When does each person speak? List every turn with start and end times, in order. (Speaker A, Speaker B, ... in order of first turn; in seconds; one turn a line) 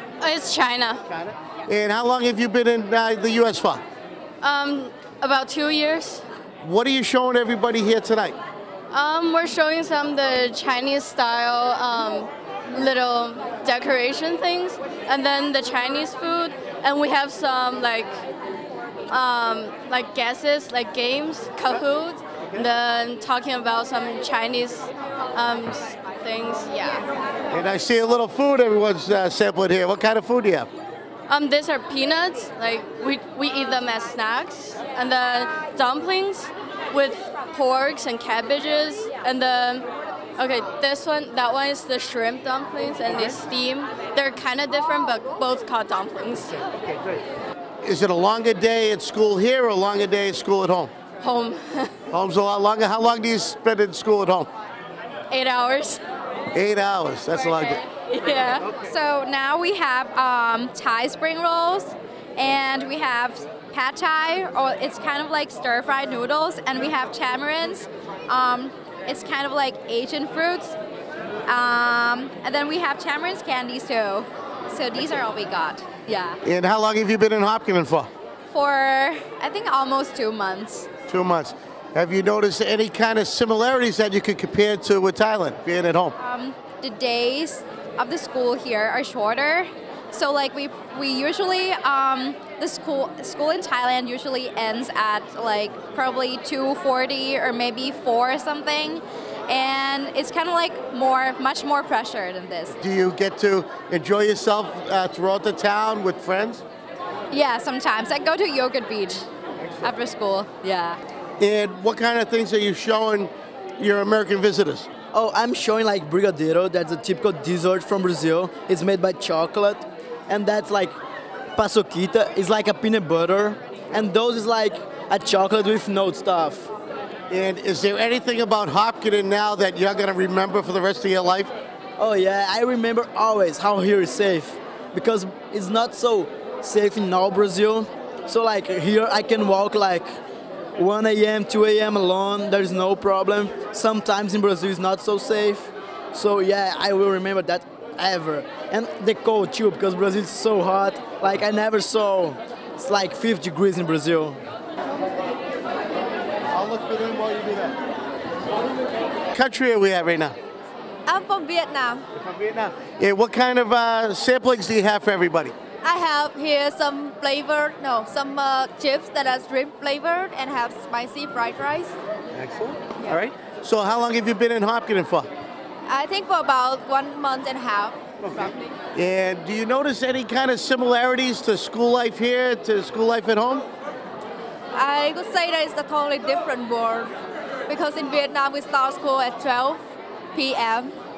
Speaker A: 0.2-1.0
Speaker B: 1.1-3.8
Speaker A: 4.4-6.2
Speaker B: 6.6-8.4
Speaker A: 8.9-18.2
Speaker A: 19.1-27.0
Speaker B: 27.5-30.7
Speaker A: 31.3-46.8
Speaker B: 47.8-50.9
Speaker A: 51.2-52.0
Speaker B: 52.1-54.5
Speaker A: 55.3-56.0
Speaker B: 56.5-57.8
Speaker A: 57.9-58.6
Speaker C: 58.8-70.8
Speaker C: 71.5-76.4
Speaker B: 76.4-78.1
Speaker C: 78.5-80.9
Speaker B: 81.1-86.2
Speaker C: 86.2-102.8
Speaker B: 102.8-106.6
Speaker C: 107.3-109.3
Speaker C: 109.8-111.0
Speaker B: 111.4-114.9
Speaker D: 115.1-121.0
Speaker D: 121.5-126.7
Speaker B: 127.3-131.5
Speaker D: 132.0-140.1
Speaker D: 140.8-154.4
Speaker B: 156.5-157.8
Speaker B: 159.3-160.4
Speaker E: 161.1-162.0
Speaker B: 162.1-165.6
Speaker E: 165.8-172.0
Speaker B: 172.3-175.3
Speaker E: 175.9-178.7
Speaker B: 178.9-183.7
Speaker E: 184.8-187.1
Speaker E: 187.7-189.8
Speaker E: 190.4-190.9